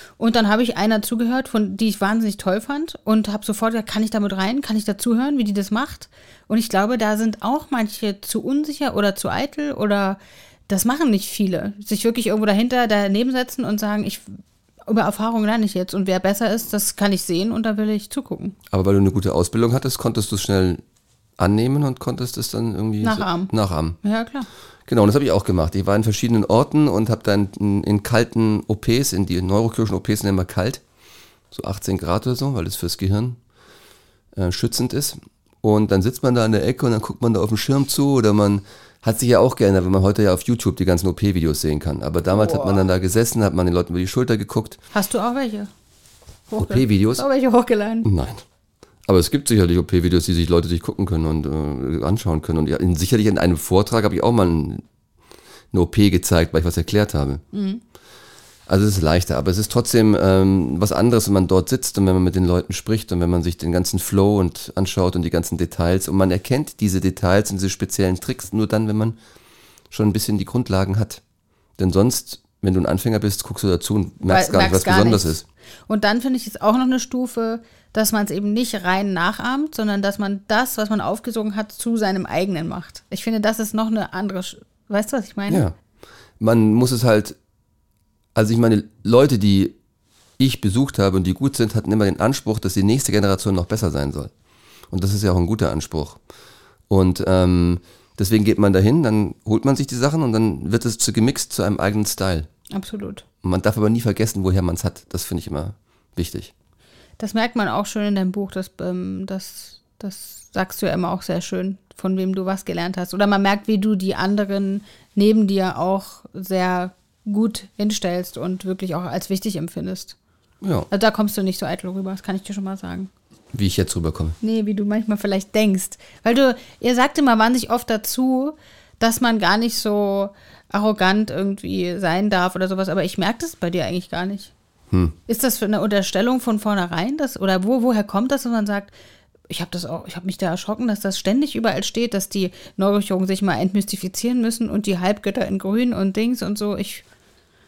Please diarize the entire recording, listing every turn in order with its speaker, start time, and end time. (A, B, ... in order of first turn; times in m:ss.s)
0:00.2-0:18.6 A
0:18.7-0:20.8 B
0:21.4-0:24.0 B
0:23.0-0:23.5 A
0:24.0-0:24.5 A
0:24.9-0:30.8 B
0:31.5-0:33.4 B
0:34.3-0:44.8 B
0:42.3-0:42.8 A
0:44.9-0:45.7 A
0:46.5-0:48.1 A
0:46.6-0:47.2 B
0:48.0-0:48.4 B
0:49.0-0:54.8 B
0:55.7-0:57.4 B
0:57.5-0:57.8 A
0:58.7-1:09.2 B
1:09.9-1:11.2 B
1:11.8-1:15.4 B
1:14.2-1:25.6 A
1:25.5-1:25.7 B
1:26.4-1:27.4 B
1:28.3-1:29.7 B
1:30.4-1:34.3 B
1:34.9-1:36.2 B
1:36.9-1:42.5 B
1:42.7-1:43.2 A
1:43.4-1:46.5 B
1:47.2-2:00.2 A
2:00.6-2:00.9 B
2:00.9-2:03.1 A
2:03.5-2:04.4 B
2:04.4-2:14.5 A
2:14.9-2:15.2 B
2:15.3-2:18.9 A
2:19.5-2:27.0 A